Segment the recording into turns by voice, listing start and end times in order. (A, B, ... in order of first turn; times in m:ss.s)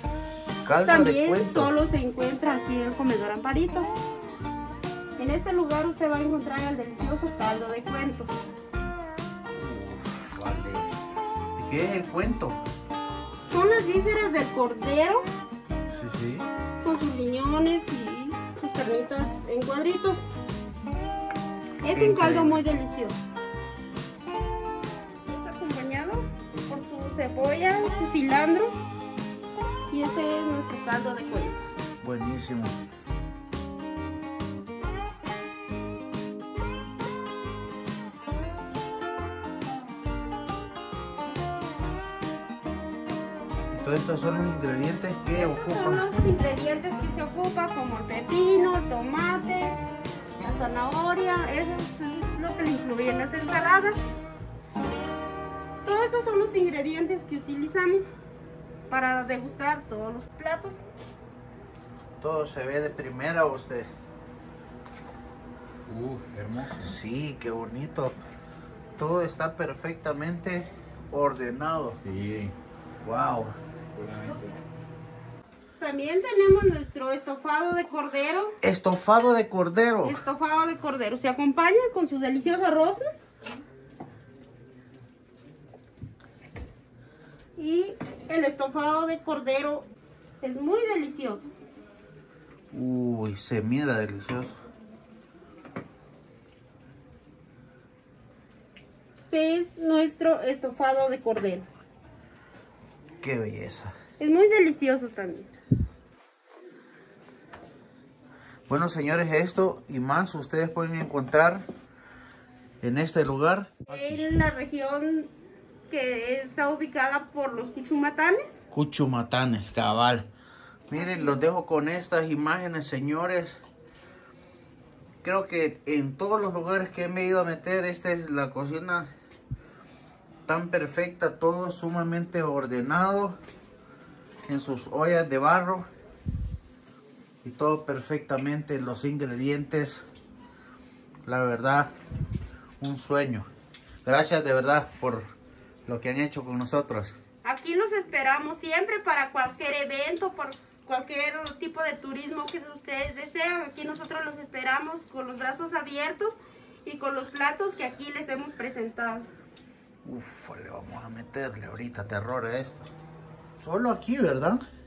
0:00.6-0:01.7 A
0:00.8-0:03.9 B
0:05.2-0:08.3 B
0:09.5-0:10.9 A
0:11.6-0:12.6 A
0:13.5-0:15.2 B
0:15.9-0:16.5 A
0:16.8-0:20.2 B
0:21.8-0:23.2 B
0:21.9-0:22.6 A
0:25.3-0:28.8 B
0:29.9-0:31.6 B
0:32.0-0:32.8 A
0:43.7-0:46.1 A
0:45.3-0:49.7 B
0:50.4-0:54.0 B
0:55.8-0:58.1 B
0:58.9-1:00.8 B
1:02.2-1:03.9 A
1:05.9-1:07.0 C
1:06.8-1:08.2 A
1:09.0-1:12.0 A
1:11.9-1:12.5 C
1:13.0-1:13.6 A
1:13.9-1:14.6 C
1:15.8-1:18.6 B
1:18.6-1:20.2 A
1:20.0-1:23.1 B
1:27.6-1:29.9 B
1:30.4-1:31.5 B
1:32.7-1:34.6 A
1:39.3-1:41.7 B
1:43.2-1:44.0 A
1:44.2-1:45.5 B
1:48.7-1:51.6 A
1:52.8-1:54.4 A
1:53.9-1:55.3 B
1:55.9-1:58.6 B
1:58.7-2:00.3 A
2:00.9-2:03.6 A
2:00.9-2:01.3 B
2:05.2-2:09.1 A
2:10.4-2:13.4 A
2:14.5-2:15.9 A
2:17.4-2:20.1 A
2:21.2-2:21.9 A
2:22.8-2:23.5 A
2:24.0-2:25.3 A
2:25.8-2:27.2 A
2:27.4-2:39.3 B
2:40.0-2:42.9 A
2:43.6-2:44.6 A